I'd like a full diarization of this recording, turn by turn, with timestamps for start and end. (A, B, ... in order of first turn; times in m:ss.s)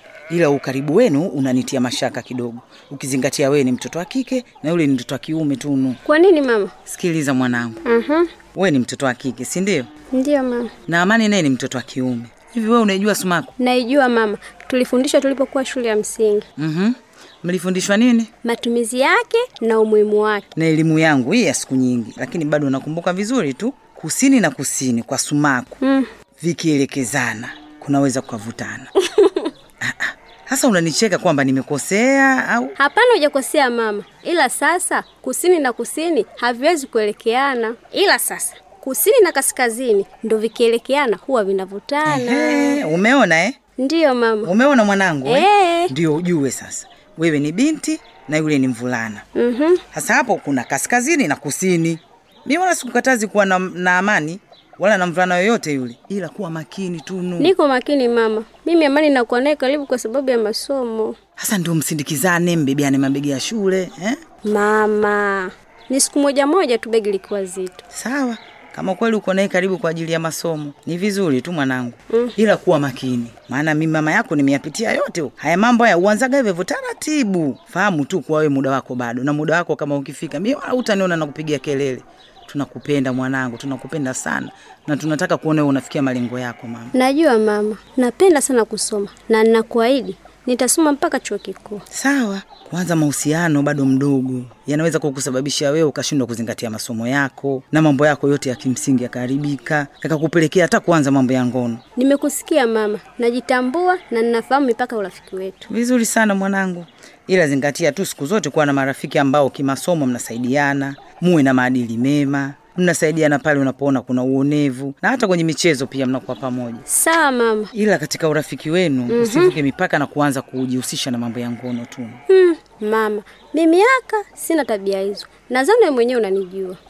0:00.3-0:06.0 A
0:06.1-0:06.7 B
0:06.9-0:07.8 A
0:07.9-0:08.3 B
0:08.6-0:09.9 A
0:10.1-0:10.7 B
0:10.9-0:13.5 A
0:13.6-0:16.4 B
0:16.6-0:18.3 A
0:18.4-0:20.4 B
0:20.6-0:25.8 A
0:25.8-0:26.1 B
0:26.4-0:28.9 A
0:29.2-0:29.5 B
0:29.9-0:32.7 A
0:32.8-0:42.8 B
0:42.1-0:43.6 A
0:43.8-0:44.5 B
0:44.4-0:49.2 A
0:45.2-0:45.9 B
0:49.4-0:49.8 B
0:49.9-0:57.5 A
0:57.4-1:01.2 B
1:01.4-1:04.2 A
1:04.4-1:07.8 B
1:07.9-1:26.9 A
1:27.0-1:31.8 B
1:31.9-1:41.8 A
1:42.0-1:45.7 B
1:45.7-1:56.8 A
1:56.9-1:57.7 B
1:57.7-2:02.2 A
1:59.1-1:59.6 B
2:02.3-2:06.8 B